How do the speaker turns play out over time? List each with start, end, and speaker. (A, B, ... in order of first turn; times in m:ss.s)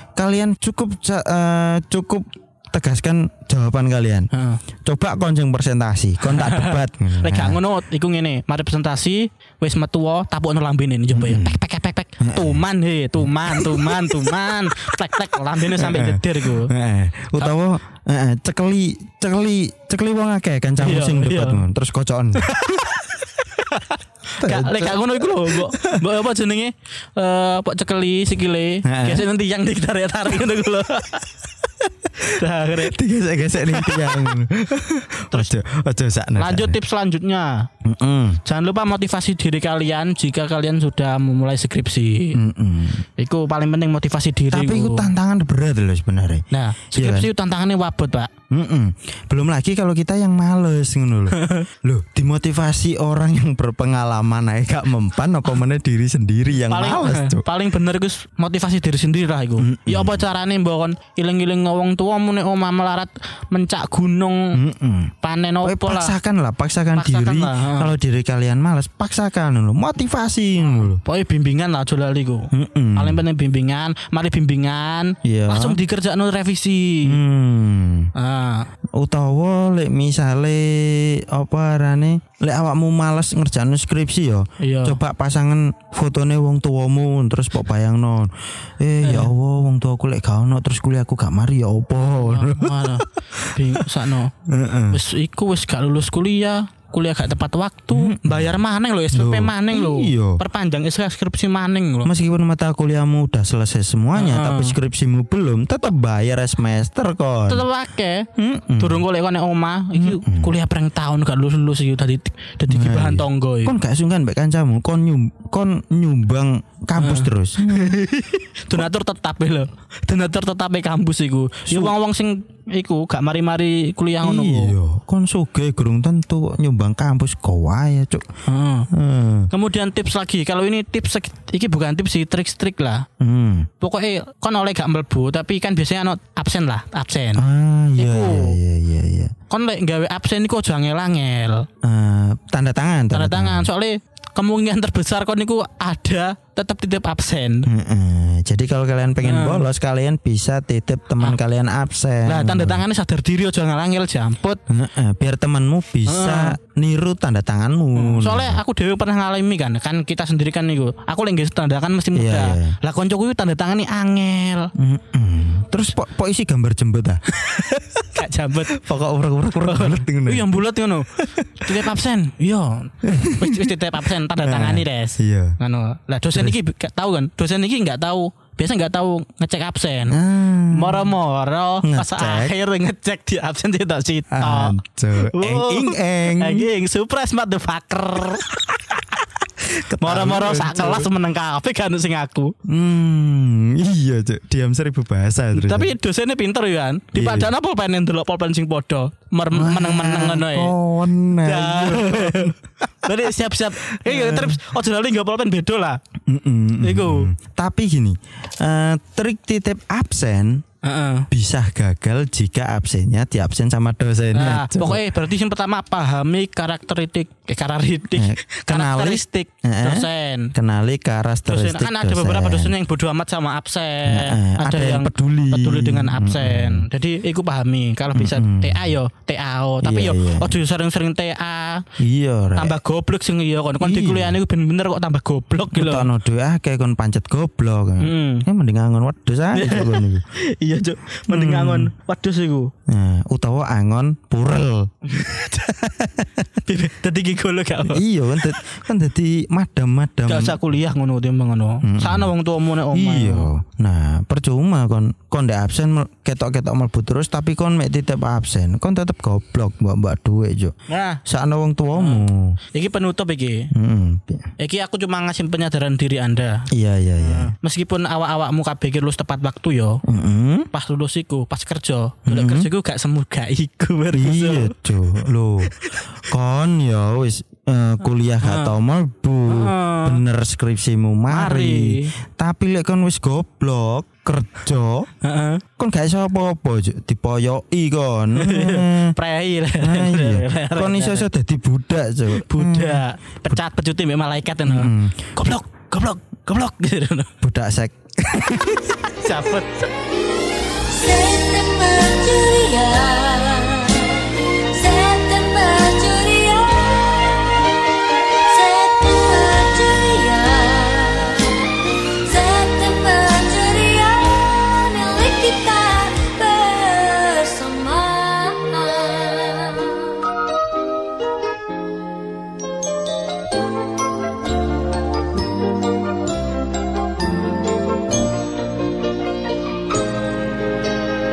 0:00.2-0:04.3 A
0:04.3-0:04.6 B
0:04.8-0:07.6 A
0:06.2-0:16.7 B
0:11.1-0:11.6 A
0:12.2-0:12.6 A
0:13.2-0:15.0 A
0:15.6-0:22.9 A
0:20.8-0:21.6 B
0:22.4-0:33.0 B
0:24.4-0:26.1 A
0:28.8-0:29.3 A
0:32.6-0:36.8 A
0:33.7-0:34.4 B
0:35.2-0:35.5 B
0:36.4-0:37.7 B
0:37.8-0:38.4 A
0:38.4-0:42.4 B
0:42.3-0:43.0 A
0:43.2-0:45.1 B
0:44.5-0:46.4 A
0:46.5-0:48.3 B
0:46.9-0:47.3 A
0:48.5-0:57.5 A
0:51.3-0:51.7 B
0:56.7-1:04.6 B
0:59.6-1:00.2 A
1:04.5-1:11.0 A
1:05.2-1:06.2 B
1:07.0-1:07.9 B
1:10.6-1:17.2 B
1:12.5-1:13.2 A
1:15.2-1:15.8 A
1:17.0-1:18.1 A
1:18.1-1:18.7 B
1:19.0-1:34.0 A
1:24.6-1:25.0 B
1:29.0-1:29.3 B
1:32.2-1:34.3 B
1:34.5-1:35.0 A
1:34.9-1:42.1 B
1:37.9-1:38.6 A
1:39.1-1:40.4 A
1:42.0-1:47.6 A
1:44.1-1:44.8 B
1:47.5-1:53.8 B
1:48.4-1:49.0 A
1:50.0-1:50.5 A
1:52.7-1:58.0 A
1:57.0-2:04.7 B
2:01.6-2:02.0 A
2:04.2-2:08.2 A
2:08.5-2:08.9 B
2:08.9-2:09.5 A
2:09.5-2:13.0 B
2:13.2-2:13.7 A
2:13.8-2:17.4 B
2:17.4-2:19.3 A
2:18.0-2:18.6 B
2:19.5-2:21.7 B
2:21.8-2:23.7 A
2:23.1-2:27.7 B
2:27.7-2:32.8 A
2:29.2-2:29.6 B
2:32.2-2:34.6 B
2:34.7-2:38.6 A
2:36.0-2:36.6 B
2:37.9-2:44.7 B
2:42.1-2:42.8 A
2:44.8-2:47.8 A
2:47.5-2:48.8 B
2:48.7-2:50.6 A
2:49.6-3:09.4 B
2:51.2-2:51.9 A
2:53.0-2:55.6 A
3:00.1-3:01.1 A
3:01.8-3:02.5 A
3:04.3-3:06.7 A
3:09.7-3:11.1 A
3:10.0-3:12.5 B
3:12.7-3:15.9 A
3:15.5-3:20.7 B
3:17.1-3:17.5 A
3:19.5-3:23.3 A
3:21.4-3:26.0 B
3:23.9-3:24.7 A
3:26.3-3:30.6 A
3:26.8-3:27.3 B
3:30.8-3:31.3 B
3:31.3-3:35.1 A
3:34.3-3:40.5 B
3:38.1-3:42.7 A
3:41.5-3:51.9 B
3:44.0-3:46.9 A
3:48.1-3:49.0 A
3:49.8-3:50.6 A
3:52.0-3:52.8 A
3:52.6-3:56.1 B
3:53.8-3:54.4 A
3:55.7-4:00.2 A
3:58.0-3:58.5 B
3:59.5-4:02.7 B
4:01.3-4:01.9 A
4:02.9-4:06.4 A
4:05.1-4:05.5 B
4:06.6-4:08.5 B
4:07.8-4:10.6 A
4:10.2-4:13.5 B
4:11.8-4:12.3 A
4:12.9-4:20.7 A
4:20.9-4:21.2 B
4:21.2-4:22.6 A
4:21.9-4:23.7 B
4:23.7-4:24.5 A
4:24.6-4:26.7 B
4:26.7-4:27.5 A
4:27.2-4:30.0 B
4:30.0-4:30.7 A
4:30.7-4:34.7 B
4:32.2-4:32.7 A
4:34.1-4:45.1 A
4:35.7-4:36.0 B
4:38.4-4:38.7 B
4:39.4-4:40.2 B
4:41.3-4:42.1 B
4:45.2-4:45.6 B
4:45.8-4:49.2 A
4:48.4-4:51.3 B
4:49.8-4:53.6 A
4:52.3-4:57.3 B
4:54.6-4:55.3 A
4:57.4-4:59.0 A
4:59.0-4:59.9 B
5:00.9-5:07.4 C
5:01.0-5:01.6 B
5:03.5-5:04.2 B
5:08.3-5:20.3 C